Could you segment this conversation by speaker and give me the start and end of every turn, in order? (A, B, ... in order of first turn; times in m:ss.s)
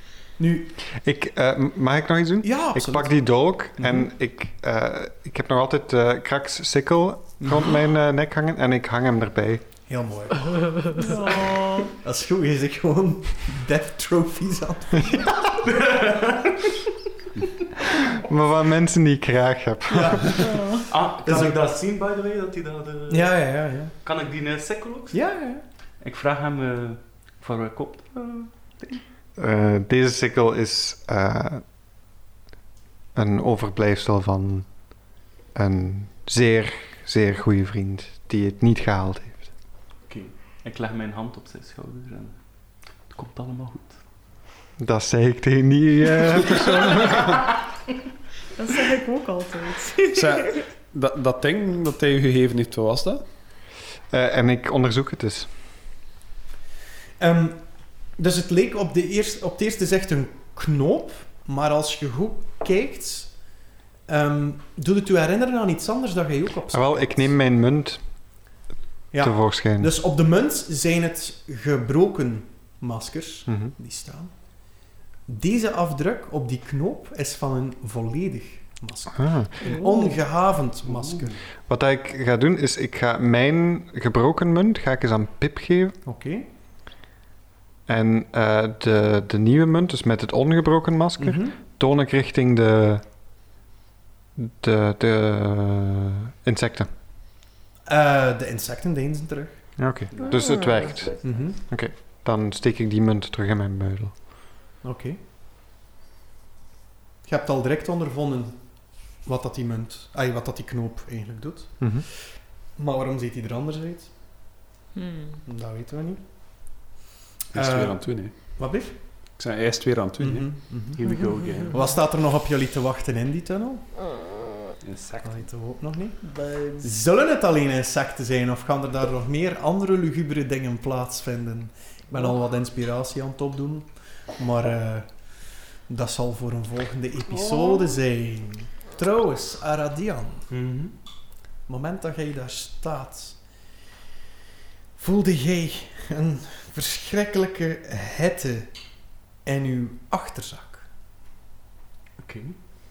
0:00.4-0:00.7 A
0:00.9-0:09.6 B
0:02.4-0:03.1 A
0:09.9-0:11.2 A
0:10.9-0:11.9 C
0:11.9-0:15.5 A
0:15.6-0:16.5 D
0:18.2-0:20.4 B
0:20.0-0:20.3 A
0:20.4-0:20.8 C
0:20.9-0:23.3 D
0:21.2-0:21.6 A
0:23.1-0:24.0 A
0:24.0-0:25.2 D
0:25.1-0:25.6 A
0:26.0-0:29.0 D
0:29.4-0:31.6 B
0:33.1-0:35.0 B
0:35.5-0:39.5 B
0:40.1-0:44.0 D
0:44.8-0:47.2 B
0:48.6-0:50.6 C
0:50.1-0:53.2 E
0:54.1-0:55.5 B
0:57.2-0:57.6 A
0:58.1-1:03.4 A
1:04.1-1:07.3 A
1:06.7-1:08.0 B
1:09.1-1:14.3 A
1:09.2-1:09.9 B
1:13.5-1:13.7 B
1:15.3-1:21.4 A
1:19.2-1:19.5 B
1:19.6-1:20.2 C
1:21.7-1:26.0 B
1:26.0-1:26.4 A
1:27.9-1:33.0 B
1:31.2-1:31.6 A
1:34.4-1:36.9 B
1:37.9-1:39.6 A
1:39.8-1:44.2 B
1:41.2-1:41.6 A
1:44.8-1:45.2 A
1:47.2-1:52.2 A
1:51.8-1:52.0 B
1:52.8-1:54.1 A
1:54.9-1:55.4 C
1:55.4-1:56.8 A
1:57.5-1:58.6 E
1:57.5-1:59.0 A
1:59.3-2:00.6 E
2:00.2-2:01.1 A
2:00.9-2:01.8 D
2:01.7-2:03.9 A
2:04.8-2:05.4 E
2:05.2-2:20.5 A
2:06.4-2:06.9 C
2:20.5-2:20.9 D
2:21.6-2:23.4 A
2:25.0-2:28.7 A
2:29.4-2:30.9 A
2:32.2-2:32.6 D